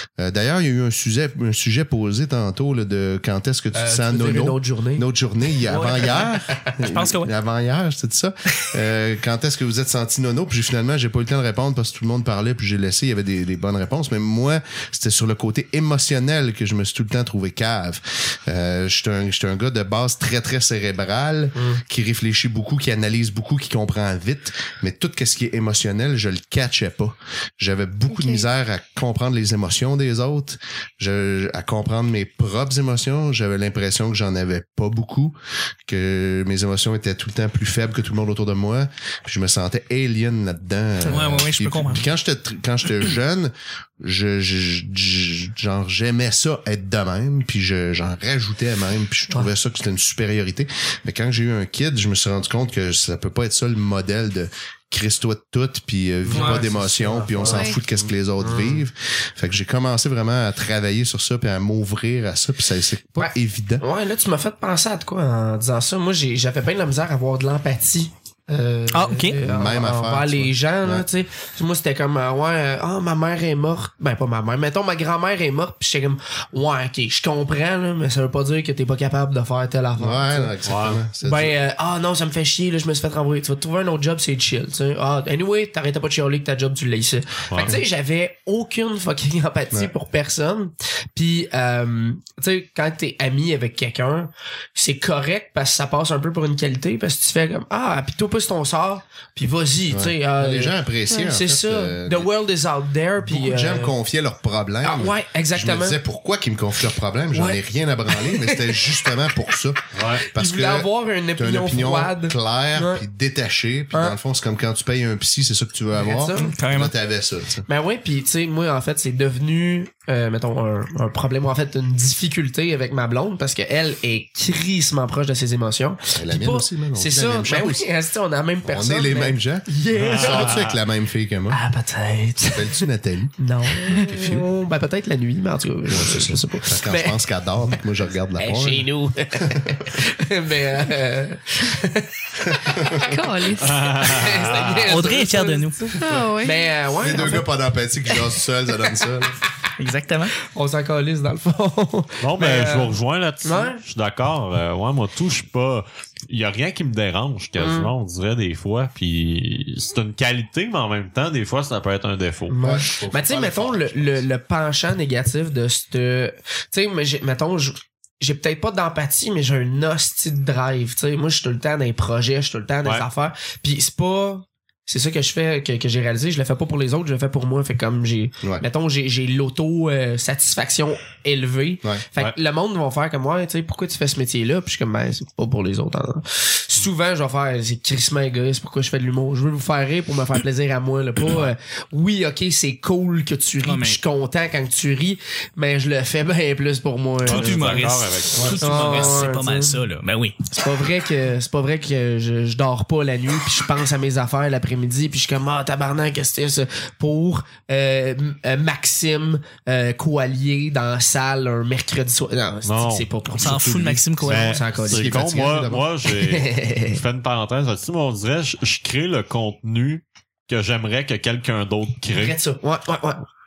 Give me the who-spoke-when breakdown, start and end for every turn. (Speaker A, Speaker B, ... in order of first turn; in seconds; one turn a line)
Speaker A: 0.2-35.4
Speaker B: 3.7-5.0
Speaker C: 5.7-6.3
Speaker C: 6.8-7.3
Speaker B: 21.6-21.8
Speaker D: 28.1-28.5
Speaker A: 35.9-63.9
Speaker C: 41.0-42.1
Speaker B: 56.2-57.8
Speaker C: 56.3-56.6
Speaker D: 57.4-57.8
Speaker B: 58.4-58.9
Speaker B: 63.2-80.5
Speaker C: 68.9-69.4
Speaker A: 69.5-71.1
Speaker A: 80.0-81.5
Speaker E: 80.7-81.0
Speaker B: 81.2-104.0
Speaker E: 87.5-87.8
Speaker A: 99.9-102.3
Speaker A: 103.2-117.7
Speaker B: 104.8-106.0
Speaker B: 107.3-109.2
Speaker E: 109.9-110.3
Speaker B: 110.2-113.0
Speaker B: 113.9-114.2
Speaker B: 116.0-116.5
Speaker C: 116.4-116.9
Speaker B: 117.7-130.7
Speaker A: 126.2-127.8
Speaker A: 128.7-131.6
Speaker E: 129.9-130.8
Speaker B: 131.5-132.8
Speaker A: 132.5-133.3
Speaker B: 133.4-137.2
Speaker A: 134.0-134.5
Speaker A: 135.9-138.9
Speaker B: 138.4-143.1
Speaker A: 139.5-139.8
Speaker A: 142.4-143.1
Speaker D: 143.0-144.0
Speaker E: 143.6-145.0
Speaker B: 143.9-147.5
Speaker C: 144.8-145.9
Speaker D: 146.0-147.4
Speaker A: 147.0-149.4
Speaker B: 148.1-149.0
Speaker C: 149.8-150.3
Speaker B: 150.4-153.8
Speaker E: 152.2-162.6
Speaker B: 157.6-157.9
Speaker B: 162.5-199.8
Speaker A: 162.6-164.3
Speaker C: 193.6-194.0
Speaker C: 197.2-200.4
Speaker E: 197.2-199.2
Speaker B: 200.5-215.1
Speaker E: 212.7-213.1
Speaker C: 213.4-214.6
Speaker E: 214.2-222.4
Speaker A: 214.8-215.8
Speaker B: 216.1-217.0
Speaker B: 222.1-223.2